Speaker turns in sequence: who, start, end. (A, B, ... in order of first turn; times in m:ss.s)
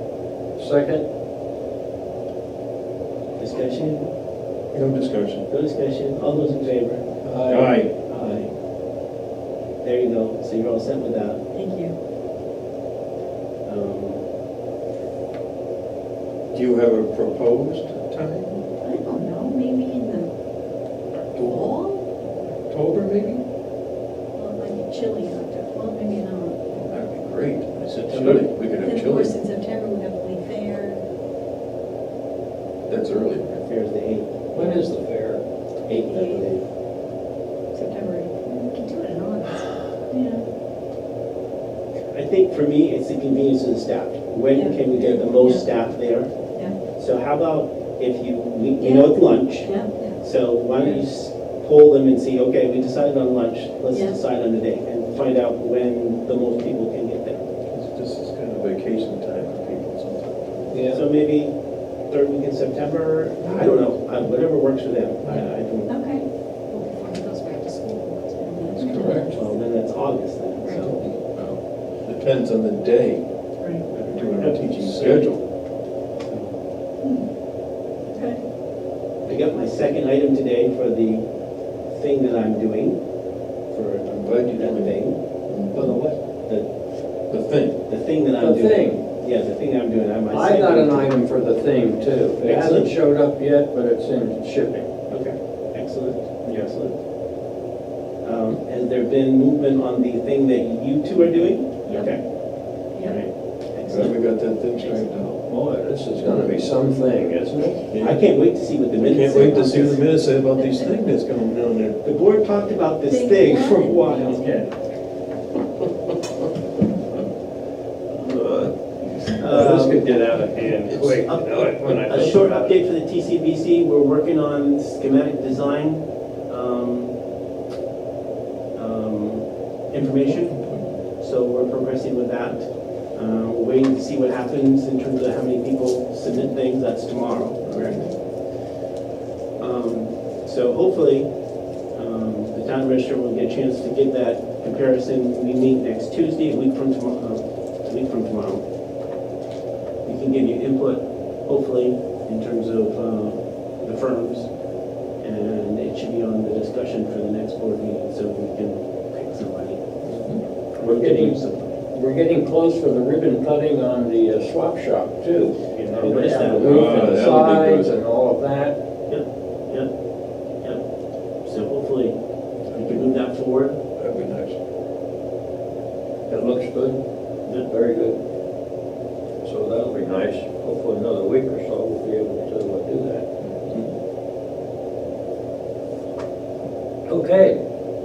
0:00.6-0:01.0 A
0:03.4-0:04.1 B
0:04.7-0:05.5 C
0:05.5-0:07.1 B
0:07.2-0:07.8 A
0:07.5-0:07.9 C
0:08.0-0:08.5 B
0:09.8-0:11.4 B
0:11.5-0:12.0 D
0:13.6-0:14.2 B
0:16.5-0:18.6 C
0:18.8-0:20.3 D
0:21.3-0:21.8 C
0:21.4-0:22.1 D
0:22.7-0:23.4 C
0:24.4-0:26.7 D
0:26.7-0:29.4 C
0:28.0-0:28.5 B
0:28.8-0:31.0 D
0:32.9-0:33.7 C
0:33.6-0:34.3 B
0:34.5-0:35.4 A
0:34.6-0:34.8 D
0:35.8-0:36.6 B
0:36.1-0:36.4 D
0:37.7-0:40.4 D
0:42.1-0:46.3 B
0:44.5-0:45.6 D
0:46.9-0:57.5 B
0:48.8-0:50.2 D
0:53.9-0:54.2 D
0:57.6-1:00.8 C
1:00.7-1:01.0 A
1:00.9-1:01.6 B
1:02.1-1:05.9 B
1:05.9-1:09.4 D
1:08.7-1:09.3 C
1:08.9-1:09.3 A
1:09.3-1:11.0 B
1:10.6-1:10.9 D
1:11.0-1:13.3 C
1:13.9-1:15.3 B
1:14.1-1:15.4 C
1:16.3-1:16.6 B
1:18.1-1:18.4 D
1:19.2-1:21.3 B
1:21.9-1:23.0 B
1:23.7-1:25.2 B
1:24.2-1:26.0 C
1:25.7-1:26.2 A
1:27.3-1:27.8 C
1:27.9-1:31.1 B
1:28.4-1:29.0 A
1:30.3-1:34.9 A
1:32.4-1:32.9 B
1:35.1-1:36.9 B
1:38.2-1:42.2 B
1:41.9-1:42.1 D
1:43.0-1:44.1 B
1:43.8-1:45.4 C
1:45.5-1:47.8 A
1:46.2-1:46.6 C
1:47.9-1:48.2 C
1:48.0-1:50.0 B
1:49.0-1:52.0 C
1:50.6-1:50.8 D
1:52.0-1:54.4 B
1:53.1-1:54.3 D
1:54.0-1:54.7 A
1:58.1-1:59.7 C
1:59.4-2:00.0 B
1:59.4-2:02.8 A
2:00.8-2:01.2 C
2:01.2-2:07.1 B
2:08.8-2:10.6 B
2:10.2-2:10.9 C
2:11.2-2:18.1 B
2:19.6-2:21.3 B
2:21.9-2:28.6 B
2:30.0-2:34.5 B
2:35.2-2:39.9 B
2:40.1-2:40.4 C
2:40.8-2:41.8 B
2:40.8-2:41.4 A
2:41.9-2:48.8 A
2:45.9-2:47.1 B
2:46.6-2:47.9 C
2:49.1-2:49.9 B
2:51.4-2:52.2 B
2:52.7-2:53.0 C
2:52.7-2:53.8 B
2:54.0-2:54.6 C
2:56.3-2:58.2 A
2:59.4-3:03.3 A
3:03.4-3:03.9 C
3:07.1-3:07.6 A